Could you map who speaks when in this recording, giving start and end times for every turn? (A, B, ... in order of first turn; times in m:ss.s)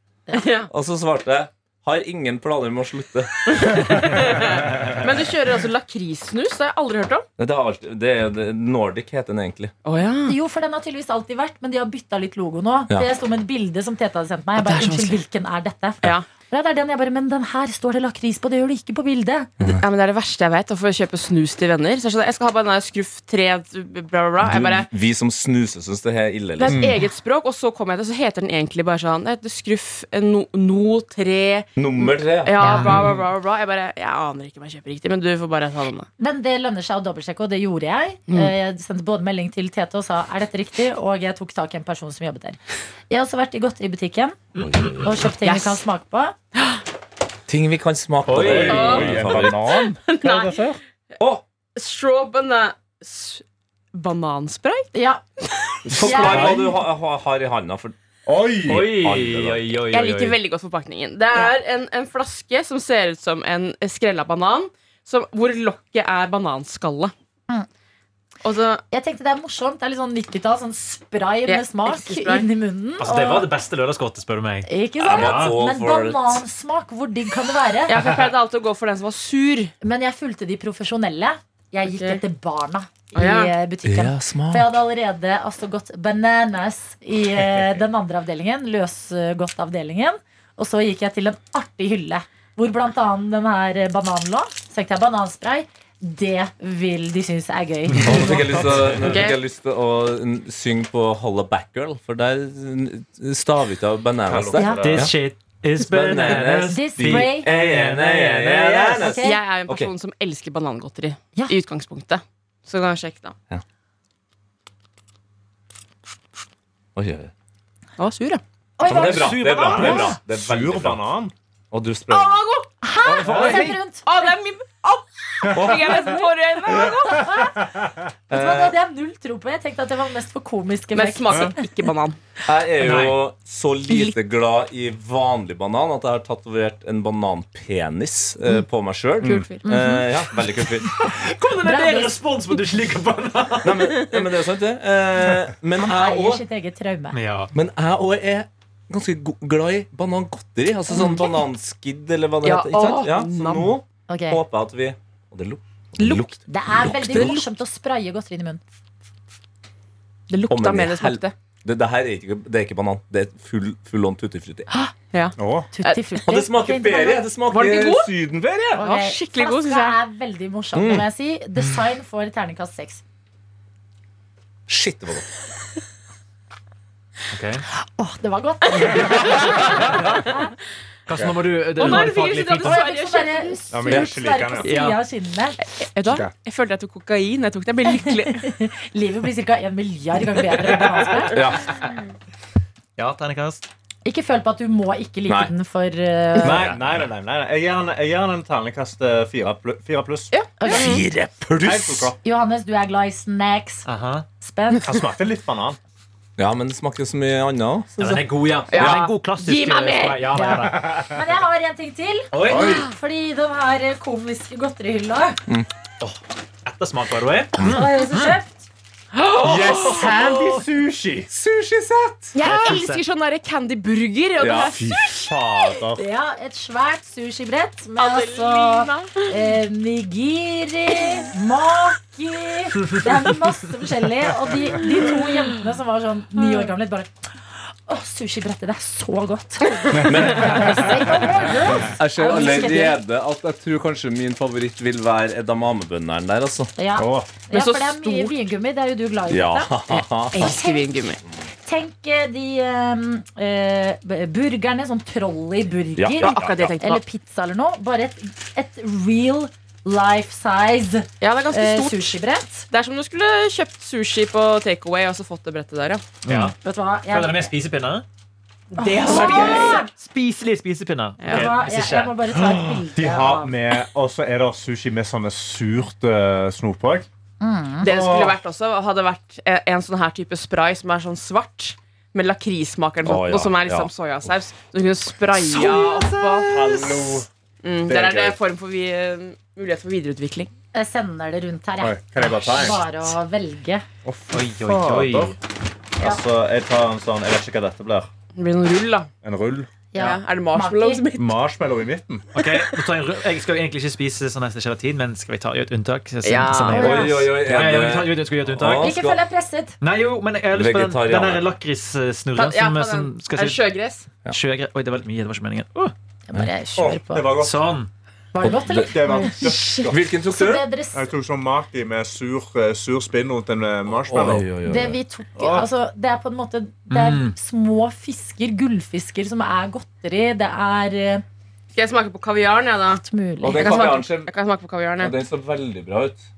0:00.3-0:00.7 A
0:00.7-0:03.8 B
0:03.4-0:07.3 A
0:07.4-0:09.7 B
0:09.8-0:10.4 A
0:10.3-0:19.5 C
0:14.6-0:15.2 A
0:19.7-0:24.9 A
0:24.4-0:26.8 B
0:26.6-0:36.1 A
0:26.7-0:27.0 D
0:31.8-0:33.1 B
0:32.6-0:33.0 C
0:36.2-0:42.6 C
0:43.1-0:44.4 C
0:44.6-0:45.3 B
0:45.0-0:46.4 C
0:45.4-0:45.8 A
0:47.5-0:49.6 B
0:48.3-0:49.1 E
0:48.3-0:50.8 D
0:48.6-0:50.7 A
0:51.8-0:53.4 A
0:53.9-0:54.9 A
0:54.9-0:55.2 C
0:55.8-0:56.7 D
0:55.9-0:57.9 B
0:56.0-0:56.7 C
0:58.3-0:59.1 D
0:58.6-1:00.4 E
0:58.8-0:59.9 B
0:59.9-1:07.1 A
1:08.4-1:08.8 A
1:08.9-1:13.5 C
1:11.5-1:12.5 A
1:13.0-1:15.6 E
1:14.6-1:18.0 C
1:15.0-1:16.4 B
1:17.9-1:19.7 A
1:19.8-1:38.7 C
1:21.9-1:22.2 A
1:23.2-1:23.5 A
1:23.8-1:24.7 B
1:37.9-1:38.7 E
1:38.0-1:45.1 B
1:39.0-1:39.4 A
1:44.3-1:45.1 D
1:44.6-1:44.9 C
1:44.7-1:49.0 E
1:45.8-1:49.9 B
1:46.6-1:47.5 C
1:49.0-1:49.4 C
1:49.2-1:53.4 A
1:57.0-1:57.3 B
1:58.0-1:58.4 A
1:58.8-2:00.2 C
1:58.8-2:01.0 B
1:58.8-2:00.1 E
1:59.7-2:01.3 D
2:01.7-2:02.4 B
2:02.1-2:02.7 A
2:02.8-2:04.1 C
2:03.0-2:03.8 B
2:03.4-2:03.6 E
2:04.0-2:07.3 A
2:05.5-2:05.8 B
2:05.8-2:07.7 C
2:08.3-2:08.8 B
2:08.3-2:11.6 C
2:10.9-2:12.2 A
2:12.5-2:21.0 B
2:12.8-2:13.2 E
2:13.9-2:14.2 A
2:19.2-2:19.5 D
2:19.2-2:19.6 A
2:19.6-2:20.1 C
2:20.8-2:24.0 E
2:21.6-2:22.2 C
2:23.6-2:26.4 B
2:24.0-2:24.2 A
2:25.7-2:27.2 C
2:27.1-2:27.5 E
2:27.5-2:37.4 B
2:30.9-2:31.4 C
2:32.4-2:33.8 A
2:34.1-2:34.4 C
2:36.0-2:36.3 A
2:36.5-2:38.6 C
2:37.0-2:37.4 A
2:40.3-2:41.3 A
2:40.5-2:44.7 B
2:45.1-2:46.0 A
2:45.4-2:45.7 D
2:45.7-2:47.3 C
2:46.3-2:48.8 B
2:47.5-2:48.1 A
2:48.7-2:53.0 C
2:48.8-2:50.0 A
2:50.8-2:51.1 B
2:54.7-2:55.3 B
2:57.3-2:57.6 E
2:58.0-3:00.5 C
2:58.8-2:59.3 A
3:01.1-3:02.8 E
3:01.2-3:01.4 D
3:01.8-3:03.6 A
3:01.8-3:05.6 C
3:03.7-3:04.7 D
3:04.6-3:05.0 E
3:05.8-3:08.4 A
3:06.1-3:06.3 D
3:07.9-3:11.4 C
3:10.9-3:11.4 E
3:11.3-3:11.8 B
3:13.0-3:13.7 E
3:14.0-3:16.7 C
3:16.4-3:20.3 D
3:16.4-3:17.0 B
3:20.3-3:21.0 A
3:20.6-3:21.0 C
3:20.7-3:22.1 B
3:21.6-3:22.2 D
3:22.2-3:23.9 C
3:23.9-3:24.3 E
3:24.4-3:25.0 C
3:24.8-3:25.8 D
3:26.4-3:29.1 B
3:28.0-3:31.1 E
3:28.7-3:30.5 A
3:30.4-3:35.4 C
3:32.3-3:32.8 E
3:32.4-3:32.9 D
3:36.0-3:38.4 E
3:37.6-3:38.7 C
3:39.1-3:40.2 A
3:39.4-3:41.3 D
3:41.3-3:42.8 B
3:42.4-3:45.4 A
3:42.4-3:43.0 E
3:44.4-3:44.8 B
3:44.7-3:46.0 D
3:46.0-3:57.1 C
3:48.0-3:49.3 A
3:57.9-4:03.0 C
3:59.7-4:00.0 A
4:00.0-4:00.7 D
4:00.0-4:01.2 B
4:01.8-4:06.7 B
4:06.8-4:09.7 C
4:07.0-4:07.3 D
4:07.5-4:08.3 A
4:09.3-4:10.5 B
4:09.9-4:11.2 A
4:10.3-4:10.9 C
4:11.6-4:22.7 C
4:16.0-4:16.7 B
4:16.2-4:17.0 A
4:21.2-4:22.2 A
4:22.7-4:26.0 A
4:26.2-4:26.6 E
4:26.6-4:27.5 C
4:27.1-4:28.0 E
4:28.7-4:29.9 A
4:28.8-4:29.9 C
4:29.0-4:32.3 E
4:31.2-4:31.5 A
4:31.3-4:33.6 C
4:32.9-4:37.1 D
4:37.4-4:37.9 C
4:37.8-4:50.5 A
4:37.8-4:38.4 D
4:43.0-4:43.9 B
4:45.5-4:47.3 D
4:47.8-4:48.4 D
4:50.7-4:53.8 C
4:51.8-4:52.8 D
4:54.0-4:55.4 D
4:54.3-4:55.4 E
4:56.0-4:58.1 D
4:58.4-4:59.1 A
4:59.2-4:59.7 D
4:59.9-5:01.0 C
5:00.0-5:01.4 A
5:01.2-5:02.3 D
5:02.3-5:09.0 E
5:06.2-5:06.9 A
5:06.6-5:07.2 C
5:06.7-5:09.2 B
5:08.8-5:09.8 C
5:09.8-5:13.6 E
5:10.5-5:11.5 B
5:12.4-5:14.1 A
5:14.3-5:15.9 E
5:16.3-5:17.3 C
5:16.8-5:17.7 D
5:17.4-5:17.9 E
5:18.3-5:21.1 C
5:18.4-5:19.1 B
5:18.7-5:20.1 D
5:19.4-5:19.9 A
5:19.9-5:20.6 B
5:20.9-5:24.5 D
5:23.9-5:25.0 B
5:24.6-5:31.2 C
5:25.4-5:25.7 D
5:26.9-5:27.4 E
5:31.7-5:35.2 A
5:32.9-5:33.9 C
5:33.4-5:34.3 B
5:35.0-5:36.2 B